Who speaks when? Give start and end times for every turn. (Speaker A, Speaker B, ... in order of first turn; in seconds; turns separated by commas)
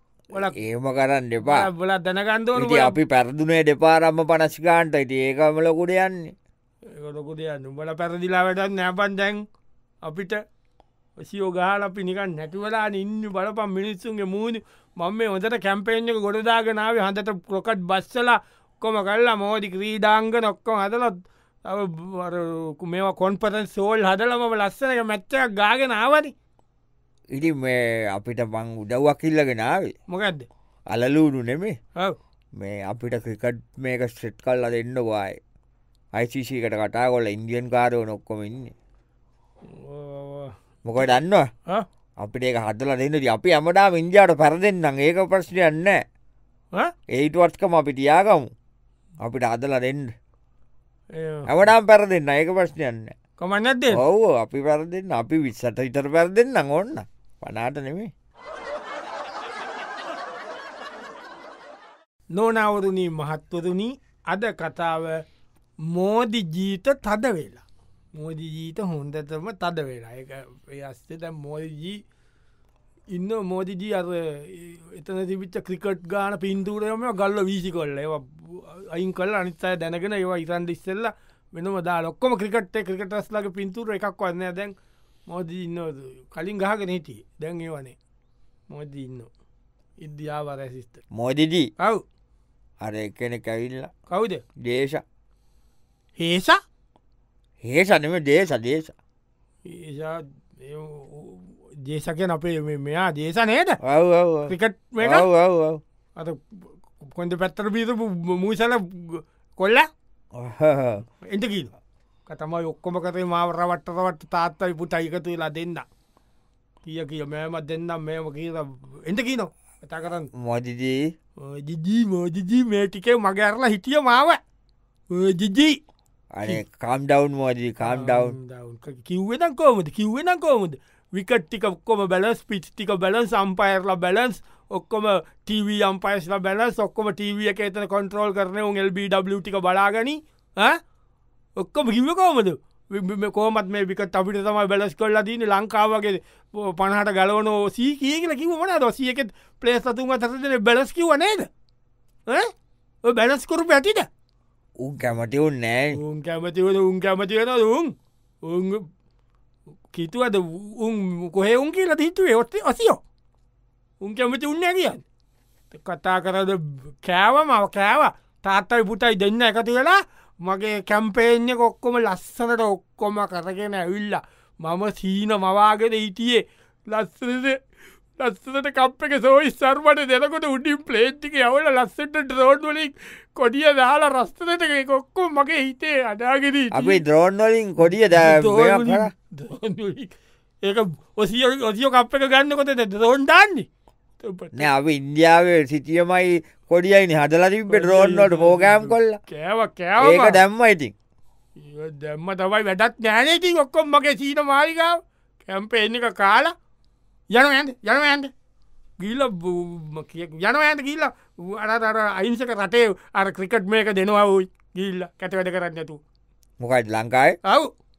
Speaker A: 0.3-1.7, Speaker B: 1.4-3.0, Speaker A: 2.5-6.3, Speaker B: 6.9-9.4, Speaker B: 10.0-10.4, Speaker B: 11.2-26.3, Speaker A: 27.3-29.9, Speaker B: 30.1-30.5, Speaker A: 30.9-31.7, Speaker A: 32.6-35.4, Speaker A: 36.1-38.7, Speaker B: 39.6-40.5, Speaker A: 40.8-41.5, Speaker A: 42.2-46.0, Speaker A: 47.1-48.5, Speaker A: 49.2-50.1, Speaker B: 51.1-51.7, Speaker A: 51.5-53.1, Speaker B: 53.4-54.0, Speaker A: 53.9-58.1, Speaker B: 62.3-65.2, Speaker B: 65.8-67.6, Speaker B: 68.1-72.0, Speaker B: 73.1-84.7, Speaker B: 85.3-88.0, Speaker B: 88.7-89.3, Speaker B: 90.0-91.0, Speaker A: 91.1-91.7, Speaker A: 92.8-93.9, Speaker B: 94.1-94.4, Speaker A: 94.6-95.0, Speaker B: 96.2-96.6, Speaker A: 97.6-98.9, Speaker B: 99.6-103.8, Speaker A: 103.8-105.8, Speaker B: 104.5-105.2, Speaker B: 106.2-109.9, Speaker A: 110.3-111.0, Speaker B: 111.2-111.7, Speaker B: 112.3-115.8, Speaker B: 116.8-120.3, Speaker A: 120.3-121.1, Speaker B: 121.4-124.4, Speaker B: 125.1-125.8, Speaker A: 126.3-128.4, Speaker B: 127.8-140.8, Speaker B: 141.6-151.5, Speaker B: 153.0-154.1, Speaker A: 154.8-156.0, Speaker B: 155.9-158.8, Speaker B: 159.9-163.0, Speaker B: 164.0-165.0, Speaker B: 165.7-177.6, Speaker B: 178.2-187.0, Speaker A: 186.7-189.1, Speaker B: 187.8-193.7, Speaker B: 194.2-194.7, Speaker A: 194.5-199.2, Speaker B: 197.7-200.4, Speaker A: 200.0-200.9, Speaker B: 201.6-206.5, Speaker B: 207.3-208.3, Speaker B: 209.0-216.0, Speaker A: 216.6-217.4, Speaker B: 217.4-217.7